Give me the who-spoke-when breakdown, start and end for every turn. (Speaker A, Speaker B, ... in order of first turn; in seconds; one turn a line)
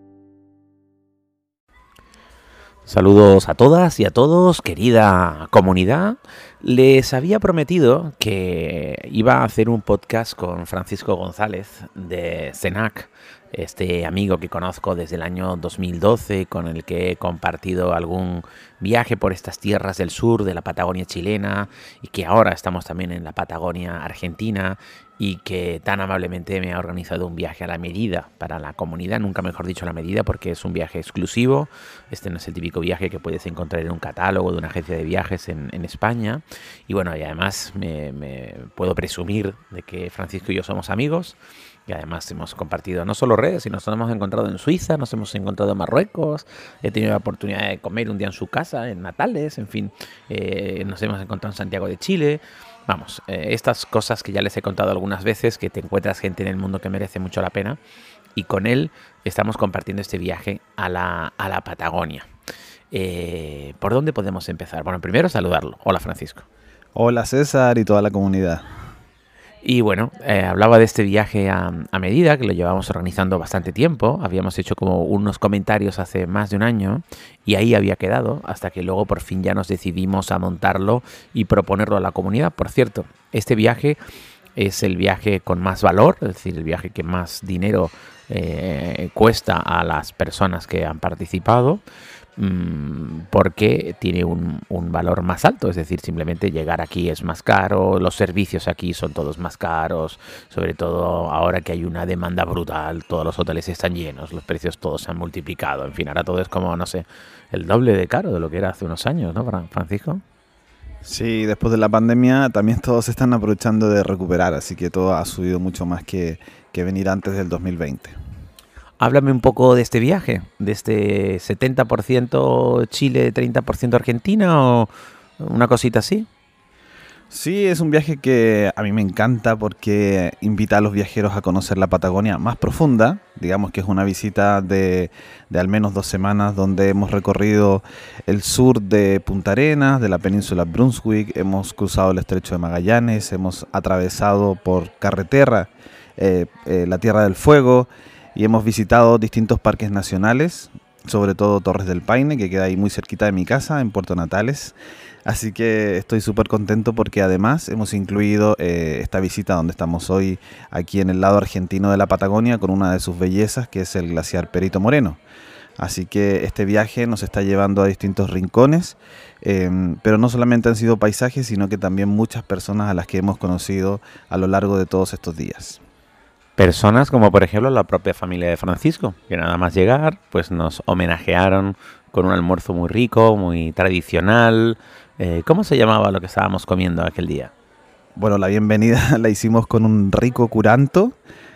Speaker A: 2.9-57.8
Speaker A: 58.4-62.2
Speaker A: 62.9-66.5
Speaker B: 67.0-68.6
Speaker A: 69.6-84.0
Speaker A: 84.5-91.8
Speaker A: 92.4-110.2
Speaker B: 111.0-118.1
Speaker A: 119.0-126.3
Speaker B: 127.3-165.2
Speaker B: 165.8-175.8
Speaker A: 176.6-187.5
Speaker B: 188.2-191.2